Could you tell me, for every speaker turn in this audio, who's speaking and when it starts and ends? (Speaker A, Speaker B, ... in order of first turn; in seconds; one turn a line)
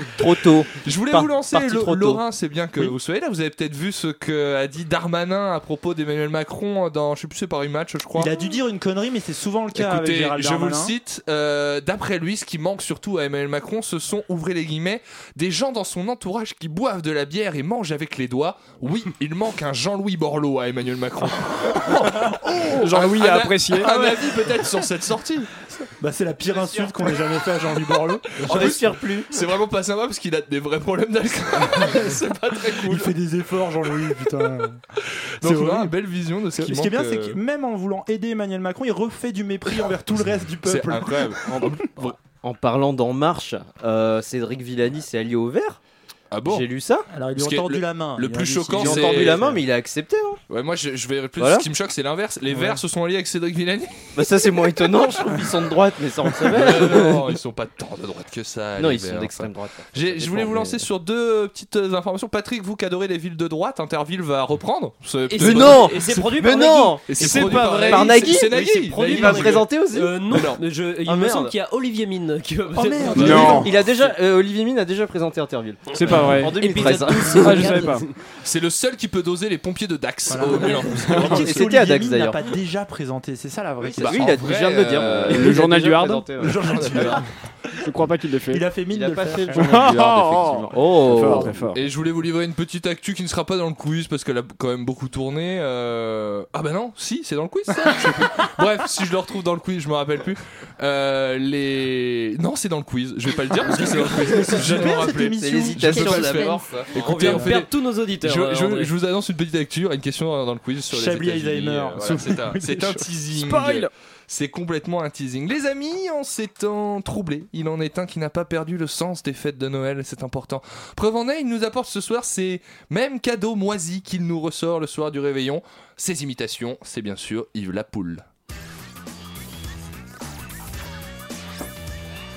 Speaker A: 0.1-2.2
Speaker B: 0.8-8.3
Speaker C: 8.1-10.9
Speaker B: 9.7-25.5
Speaker D: 22.6-24.1
Speaker C: 26.0-28.7
Speaker B: 28.4-33.1
Speaker A: 28.4-29.3
Speaker C: 31.7-34.8
Speaker B: 35.4-37.4
Speaker C: 35.4-35.9
Speaker C: 36.5-41.4
Speaker B: 40.6-42.1
Speaker A: 41.5-45.8
Speaker B: 46.3-46.6
Speaker A: 46.5-47.1
Speaker C: 47.1-49.5
Speaker B: 47.4-49.4
Speaker A: 48.8-50.4
Speaker B: 50.5-53.9
Speaker A: 51.4-51.6
Speaker C: 52.5-52.8
Speaker A: 54.1-57.3
Speaker B: 56.5-65.9
Speaker A: 58.8-60.9
Speaker E: 65.3-74.1
Speaker A: 65.4-70.1
Speaker B: 67.1-69.7
Speaker B: 70.3-70.6
Speaker A: 71.0-71.5
Speaker C: 72.7-73.7
Speaker B: 73.1-73.7
Speaker D: 73.2-73.7
Speaker A: 73.2-77.9
Speaker D: 75.9-78.0
Speaker E: 76.5-78.1
Speaker B: 78.4-81.6
Speaker C: 80.3-84.4
Speaker D: 81.1-81.4
Speaker A: 81.2-82.4
Speaker A: 83.8-87.1
Speaker B: 84.0-85.6
Speaker D: 85.2-86.3
Speaker C: 86.4-87.2
Speaker B: 86.7-87.2
Speaker D: 87.8-88.6
Speaker C: 88.5-89.7
Speaker A: 88.9-91.5
Speaker D: 89.5-91.8
Speaker B: 91.7-107.7
Speaker C: 103.7-106.6
Speaker A: 104.5-106.7
Speaker E: 106.9-108.9
Speaker C: 107.1-107.5
Speaker B: 108.2-128.2
Speaker C: 110.9-113.1
Speaker D: 113.3-113.9